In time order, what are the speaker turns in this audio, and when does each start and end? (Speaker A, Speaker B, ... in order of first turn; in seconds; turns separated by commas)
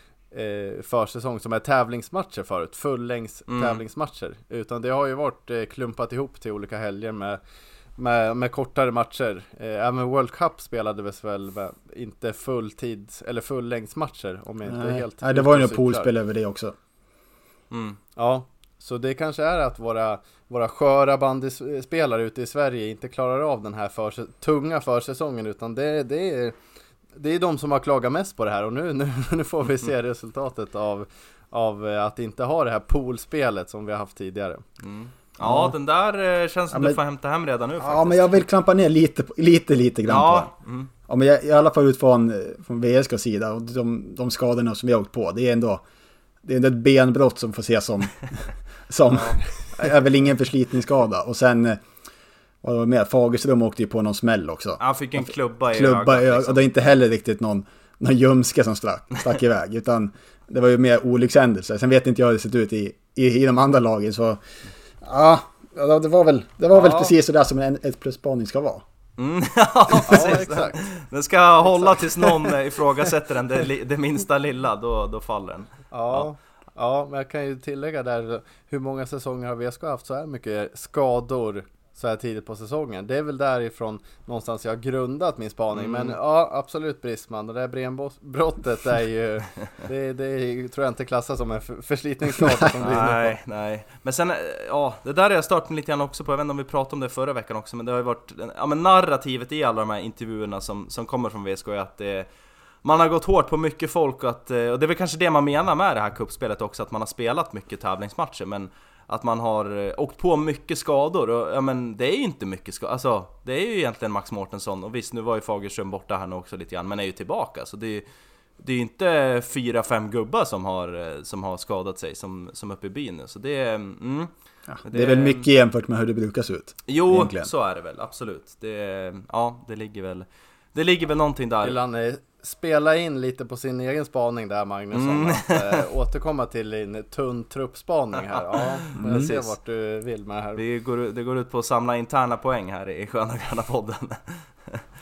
Speaker A: 0.3-7.4, Speaker B: 3.5-3.8, Speaker A: 8.0-16.1, Speaker C: 14.7-16.7, Speaker B: 17.7-18.0, Speaker A: 18.1-26.5, Speaker A: 27.1-34.6, Speaker B: 34.8-38.4, Speaker C: 35.4-35.7, Speaker C: 36.7-37.0, Speaker C: 37.8-40.5, Speaker B: 40.1-40.9, Speaker C: 41.1-45.8, Speaker C: 46.4-51.8, Speaker C: 52.6-64.4, Speaker B: 54.8-56.7, Speaker C: 65.0-68.8, Speaker A: 66.7-67.1, Speaker B: 69.2-76.3, Speaker A: 70.1-70.8, Speaker A: 72.0-72.5, Speaker A: 75.9-93.3, Speaker B: 85.7-86.1, Speaker B: 92.8-102.3, Speaker B: 102.8-118.0, Speaker B: 118.6-124.3, Speaker C: 124.7-127.5, Speaker B: 124.8-125.5, Speaker B: 126.9-131.8, Speaker A: 131.6-140.6, Speaker B: 134.9-135.8, Speaker B: 138.3-139.5, Speaker B: 140.6-144.8